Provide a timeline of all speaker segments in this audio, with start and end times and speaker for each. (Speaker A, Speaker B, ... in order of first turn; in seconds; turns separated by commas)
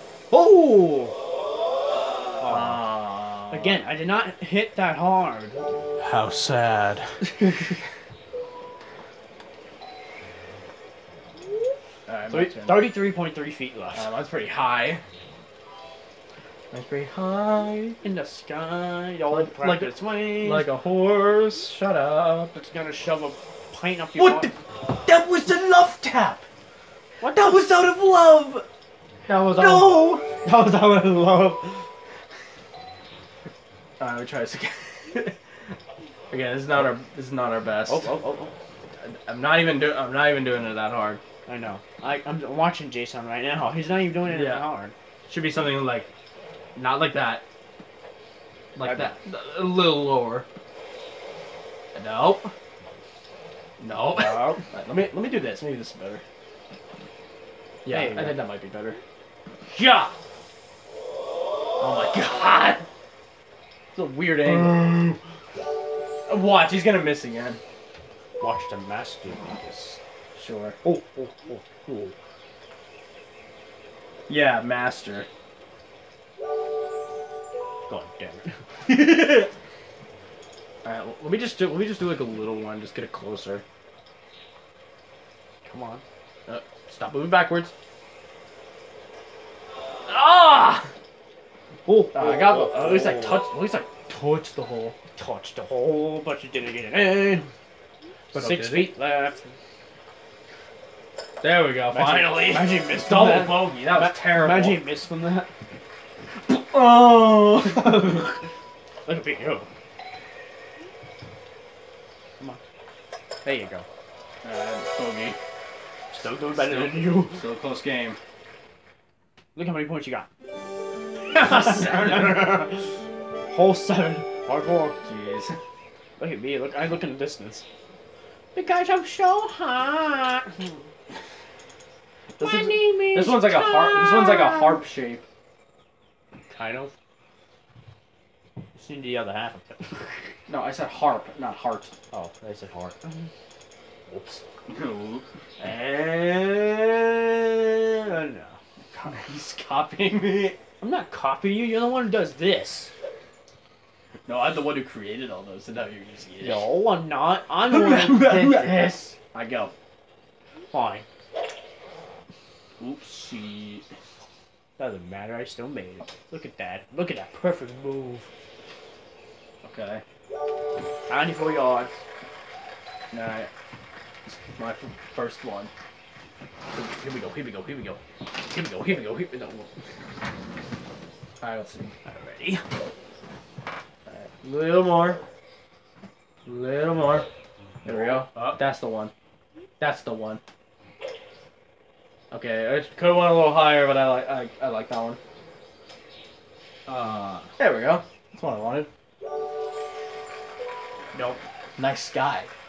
Speaker A: 0.3-1.1, Speaker A: 2.4-2.9, Speaker B: 2.5-3.8, Speaker A: 3.5-5.7, Speaker B: 6.0-7.2, Speaker B: 12.1-12.9, Speaker A: 12.3-14.1, Speaker B: 13.9-15.0, Speaker B: 16.7-18.0, Speaker A: 18.0-20.7, Speaker B: 19.3-22.6, Speaker A: 22.5-24.5, Speaker B: 24.2-26.4, Speaker A: 27.2-27.8, Speaker B: 27.2-28.6, Speaker A: 29.3-31.9, Speaker B: 29.5-30.2, Speaker B: 34.0-35.4, Speaker B: 36.3-38.1, Speaker A: 37.9-38.5, Speaker B: 39.0-41.2, Speaker A: 41.5-44.9, Speaker B: 44.3-44.6, Speaker B: 45.3-46.1, Speaker B: 46.8-47.4, Speaker B: 48.8-50.5, Speaker A: 48.8-49.2, Speaker B: 52.0-52.5, Speaker B: 53.8-56.2, Speaker A: 54.1-54.6, Speaker B: 57.9-59.0, Speaker A: 57.9-58.4, Speaker B: 59.7-60.1, Speaker B: 61.8-62.9, Speaker B: 64.0-65.2, Speaker A: 64.5-65.1, Speaker B: 66.3-67.6, Speaker A: 68.4-70.0, Speaker B: 70.3-70.8, Speaker A: 70.8-72.1, Speaker B: 74.3-75.3, Speaker A: 77.9-78.6, Speaker B: 78.9-79.5, Speaker B: 80.8-83.6, Speaker A: 85.7-86.0, Speaker B: 86.5-87.7, Speaker B: 90.1-90.9, Speaker A: 91.9-93.4, Speaker B: 92.1-95.0, Speaker A: 95.2-97.5, Speaker B: 98.3-98.9, Speaker A: 98.3-99.5, Speaker B: 101.4-104.8, Speaker A: 101.9-105.5, Speaker B: 106.5-108.3, Speaker A: 107.7-108.3, Speaker A: 109.0-109.7, Speaker A: 113.4-113.9, Speaker B: 114.4-115.4, Speaker A: 116.1-117.4, Speaker B: 116.5-118.2, Speaker A: 119.5-120.3, Speaker A: 121.3-123.0, Speaker B: 121.3-122.6, Speaker A: 123.5-125.0, Speaker B: 125.0-125.6, Speaker A: 126.2-127.7, Speaker A: 128.5-130.8, Speaker B: 132.4-135.2, Speaker A: 132.4-134.8, Speaker A: 136.5-136.9, Speaker A: 138.8-140.3, Speaker B: 140.5-141.9, Speaker A: 142.1-143.3, Speaker A: 144.1-144.4, Speaker B: 144.7-146.6, Speaker A: 145.6-147.0, Speaker A: 147.9-148.6, Speaker B: 148.9-150.6, Speaker A: 150.8-152.9, Speaker B: 154.3-156.6, Speaker A: 156.4-159.2, Speaker B: 157.7-159.7, Speaker A: 160.7-161.1, Speaker B: 162.8-163.8, Speaker A: 164.8-168.3, Speaker B: 169.6-170.0, Speaker A: 171.1-172.0, Speaker B: 173.1-173.5, Speaker B: 174.3-175.7, Speaker B: 176.7-179.7, Speaker B: 181.4-181.9, Speaker A: 182.1-182.7, Speaker B: 184.1-185.2, Speaker B: 186.5-187.3, Speaker B: 187.8-189.1, Speaker A: 188.3-188.6, Speaker B: 189.8-190.4, Speaker B: 192.3-195.2, Speaker A: 196.9-197.5, Speaker B: 197.6-198.9, Speaker A: 201.1-201.4, Speaker B: 201.8-202.5